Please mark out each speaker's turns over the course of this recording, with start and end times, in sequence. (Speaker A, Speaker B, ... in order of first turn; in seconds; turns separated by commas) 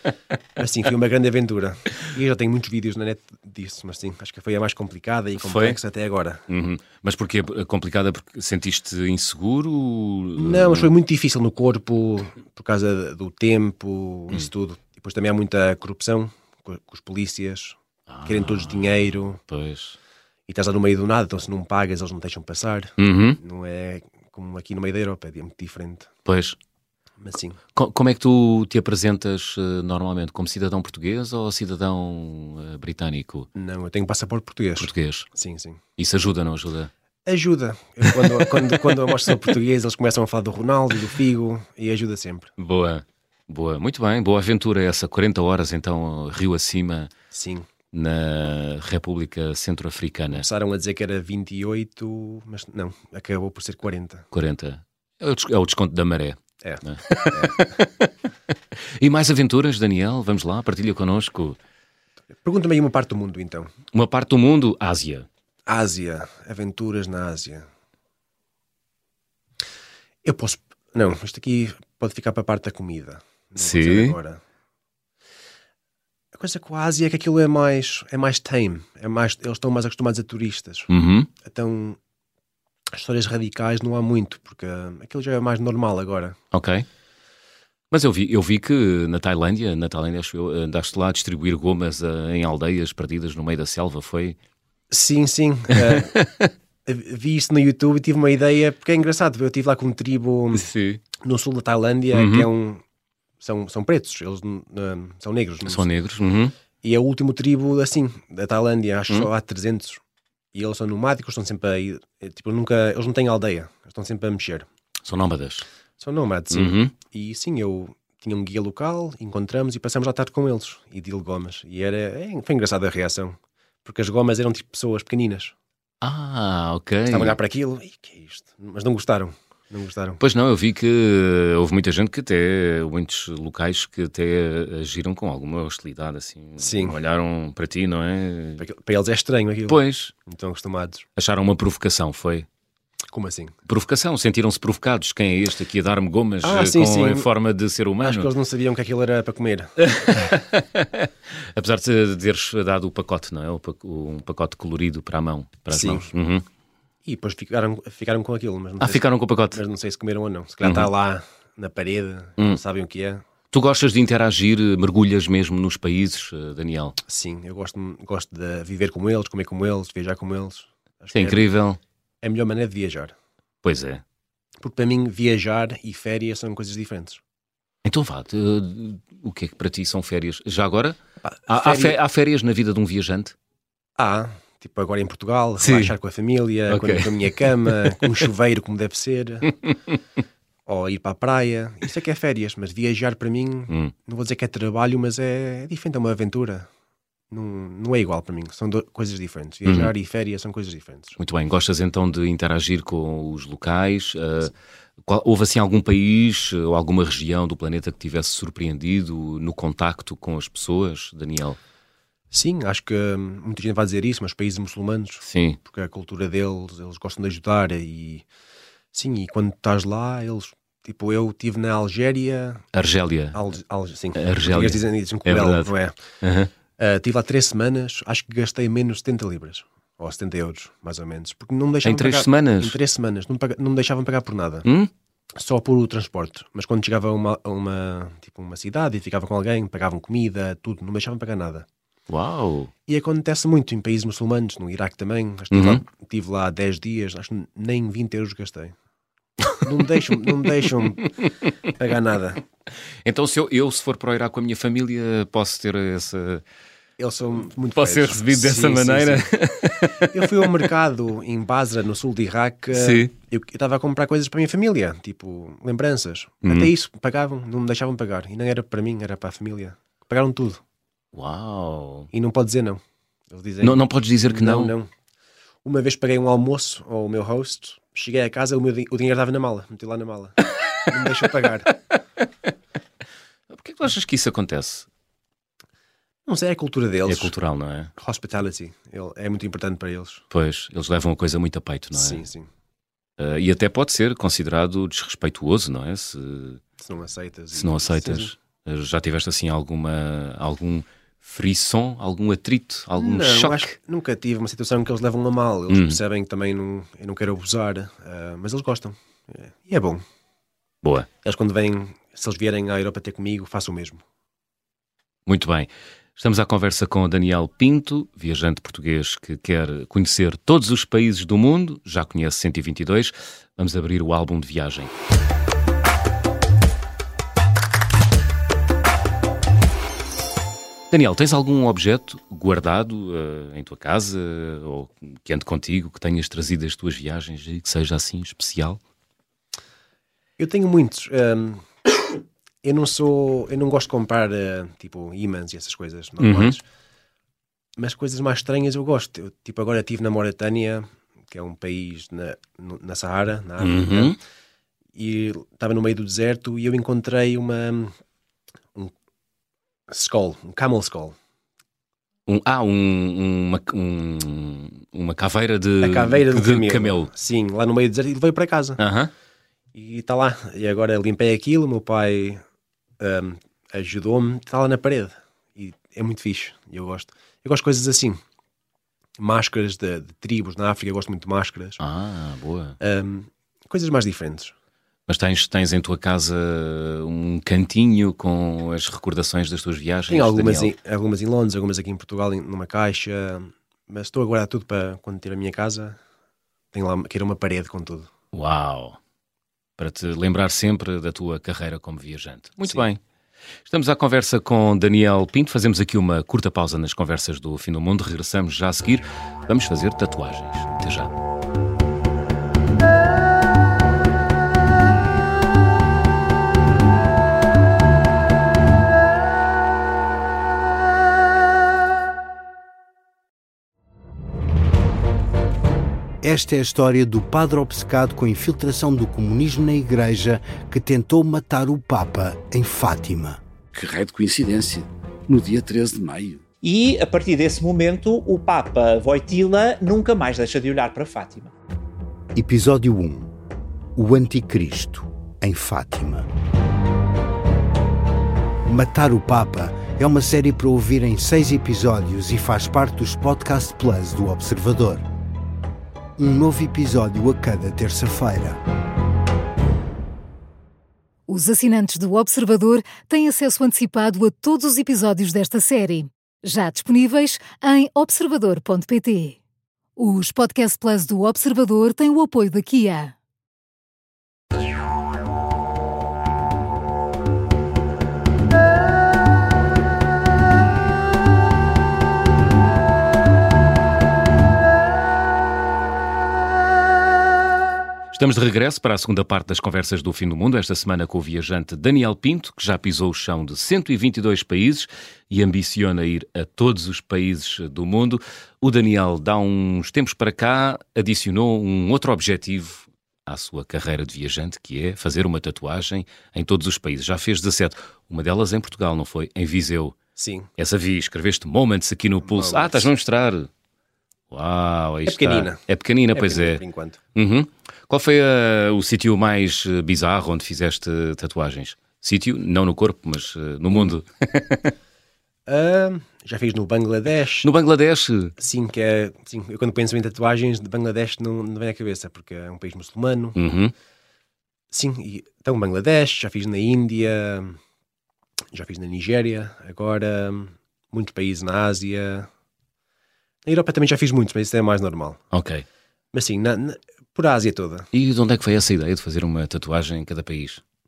Speaker A: 0.6-6.4, Speaker B: 5.4-5.8, Speaker B: 6.5-10.9, Speaker A: 10.4-19.4, Speaker B: 18.1-20.0, Speaker A: 20.5-26.1, Speaker B: 23.0-23.4, Speaker B: 26.2-26.6, Speaker A: 27.2-27.6, Speaker B: 27.7-33.5, Speaker A: 33.5-35.8, Speaker B: 34.8-35.3, Speaker B: 36.0-36.9, Speaker A: 37.2-42.5, Speaker B: 38.1-38.7, Speaker B: 42.6-47.1, Speaker A: 47.3-47.6, Speaker B: 47.9-50.5, Speaker A: 50.3-54.3, Speaker B: 54.3-58.1, Speaker A: 56.6-57.8, Speaker B: 59.0-61.6, Speaker A: 62.4-63.7, Speaker B: 63.9-65.3, Speaker A: 65.7-67.7, Speaker A: 70.2-74.4, Speaker B: 73.6-74.2, Speaker A: 76.3-80.9, Speaker B: 80.9-81.3, Speaker A: 81.4-82.0, Speaker A: 82.9-86.4, Speaker B: 86.5-86.8, Speaker B: 87.9-94.3, Speaker A: 94.9-96.2, Speaker B: 95.8-96.5, Speaker A: 96.8-100.7, Speaker B: 100.5-101.0, Speaker A: 101.2-102.8, Speaker B: 102.1-102.5, Speaker A: 103.4-105.8, Speaker B: 105.7-106.5, Speaker A: 106.8-110.0, Speaker A: 110.5-114.7, Speaker B: 115.0-115.7, Speaker A: 116.0-125.5, Speaker B: 116.5-116.9, Speaker B: 126.0-127.4, Speaker A: 127.1-130.2, Speaker B: 130.2-138.6, Speaker A: 136.6-137.0, Speaker A: 138.6-141.0, Speaker B: 139.7-140.1, Speaker B: 141.2-142.4, Speaker A: 143.1-143.5, Speaker B: 143.7-148.3, Speaker A: 146.4-147.3, Speaker A: 148.0-150.3, Speaker B: 149.8-156.4, Speaker A: 155.7-156.1, Speaker A: 157.0-163.2, Speaker B: 158.8-159.6, Speaker B: 160.6-160.9, Speaker B: 163.5-167.0, Speaker A: 167.1-171.5, Speaker B: 171.1-171.8, Speaker A: 172.2-173.1, Speaker B: 173.6-174.0, Speaker A: 174.6-177.2, Speaker B: 177.8-183.3, Speaker A: 181.2-182.0, Speaker A: 184.0-189.5, Speaker B: 185.6-185.9, Speaker B: 186.7-188.2, Speaker A: 190.7-196.7, Speaker A: 197.3-201.2, Speaker B: 199.6-199.9, Speaker B: 201.2-204.5, Speaker B: 205.1-211.6, Speaker A: 212.3-218.2, Speaker B: 215.2-215.6, Speaker A: 218.9-222.7, Speaker B: 222.7-223.4, Speaker A: 223.3-225.9, Speaker B: 224.1-226.5, Speaker A: 226.8-234.7, Speaker B: 231.8-232.8, Speaker B: 234.6-234.9, Speaker A: 235.3-241.7, Speaker B: 242.1-242.7, Speaker A: 242.9-248.7, Speaker B: 245.5-245.8, Speaker A: 249.6-251.1, Speaker A: 251.8-252.4, Speaker B: 253.0-256.4, Speaker A: 257.0-259.3, Speaker B: 257.8-260.6, Speaker A: 260.0-270.6, Speaker B: 262.7-263.1, Speaker B: 266.4-266.7, Speaker B: 271.1-272.1, Speaker A: 272.1-274.9, Speaker B: 273.6-274.7, Speaker A: 275.6-281.7, Speaker B: 283.5-284.9, Speaker A: 286.2-287.3, Speaker B: 287.1-287.9, Speaker A: 288.0-290.2, Speaker B: 290.3-292.2, Speaker A: 291.9-292.5, Speaker B: 293.2-296.6, Speaker A: 296.8-298.3, Speaker B: 297.5-303.7, Speaker A: 303.0-310.0, Speaker B: 305.7-306.0, Speaker B: 310.8-311.1, Speaker A: 311.2-314.0, Speaker B: 315.2-324.9, Speaker B: 330.9-338.8, Speaker A: 340.4-341.6, Speaker A: 342.6-346.6, Speaker B: 346.2-346.6, Speaker A: 347.8-354.2, Speaker B: 353.6-354.2, Speaker A: 354.9-357.9, Speaker A: 359.9-361.1, Speaker B: 362.3-367.1, Speaker A: 365.8-368.8, Speaker B: 368.8-369.1, Speaker A: 369.7-372.4, Speaker A: 373.0-378.2, Speaker A: 379.2-381.8, Speaker B: 381.8-382.8, Speaker A: 382.8-384.5, Speaker B: 385.1-390.7, Speaker A: 390.1-396.0, Speaker A: 396.7-398.1, Speaker B: 398.3-399.0, Speaker B: 399.8-403.0, Speaker B: 403.7-411.1, Speaker C: 426.2-433.4, Speaker D: 433.7-436.4, Speaker E: 436.6-441.5, Speaker C: 442.3-443.3, Speaker C: 443.9-446.3, Speaker C: 448.7-455.1, Speaker C: 456.2-458.6, Speaker F: 461.3-469.4, Speaker F: 470.0-473.1, Speaker B: 488.1-510.0, Speaker A: 510.2-510.5, Speaker B: 510.6-513.5, Speaker A: 512.2-512.9, Speaker B: 514.3-516.6, Speaker A: 515.0-517.0, Speaker B: 517.1-524.7, Speaker A: 525.5-527.5, Speaker B: 527.4-528.3, Speaker A: 528.4-533.4, Speaker B: 533.4-533.7, Speaker A: 534.7-537.6, Speaker A: 538.5-542.3, Speaker A: 543.4-545.2, Speaker B: 545.3-545.6, Speaker A: 546.1-547.9, Speaker B: 547.9-550.6